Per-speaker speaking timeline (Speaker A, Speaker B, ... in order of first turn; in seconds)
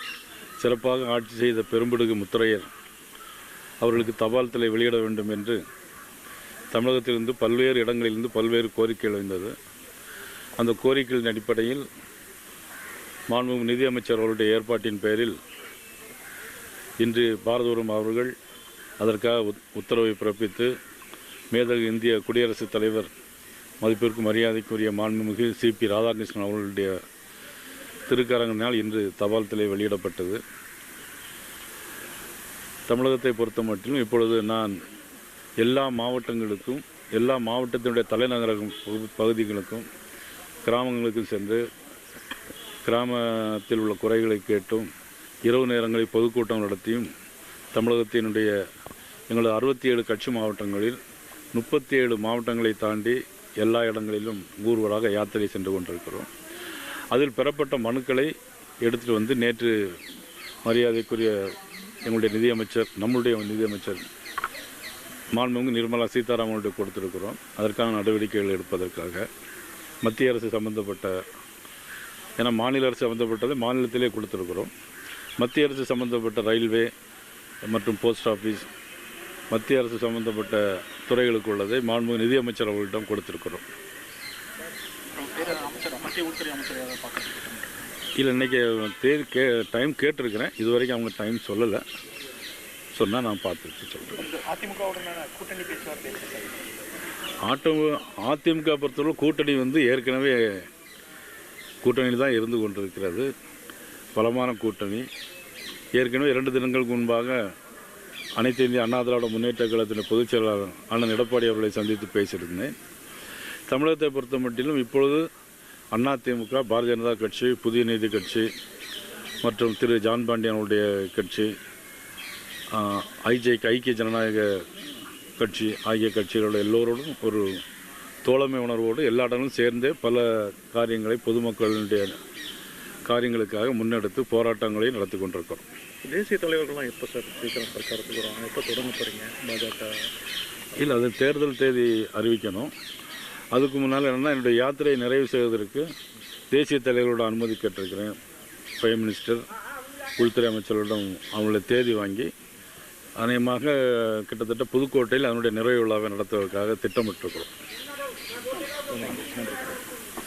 Speaker A: 0.6-2.6, 3.8-5.6, 6.7-9.6, 10.6-11.8, 13.3-15.3, 17.0-18.3, 19.0-20.7, 21.5-23.1, 23.8-27.0, 28.1-30.4, 32.9-34.8, 35.6-39.9, 40.6-41.6, 42.8-44.9, 45.5-47.1, 47.7-48.5, 49.3-51.0, 51.5-56.3, 57.1-58.3, 58.8-59.9, 60.6-61.5, 62.0-64.0, 65.3-69.3, 70.0-71.2, 72.4-74.7, 75.4-76.9, 77.6-78.7, 79.5-83.6, 88.2-91.8, 92.9-94.2, 97.5-100.6, 101.8-103.3, 104.1-105.1, 106.0-107.4, 108.4-112.7, 113.7-115.2, 115.9-118.5, 119.4-121.5, 122.7-124.7, 125.4-127.6, 128.2-132.2, 133.1-135.6, 140.8-142.7, 143.5-145.9, 146.5-148.2, 148.8-149.4, 150.2-152.3, 153.2-157.5
Speaker B: 85.1-87.7, 94.2-96.7, 136.0-140.1, 158.9-159.8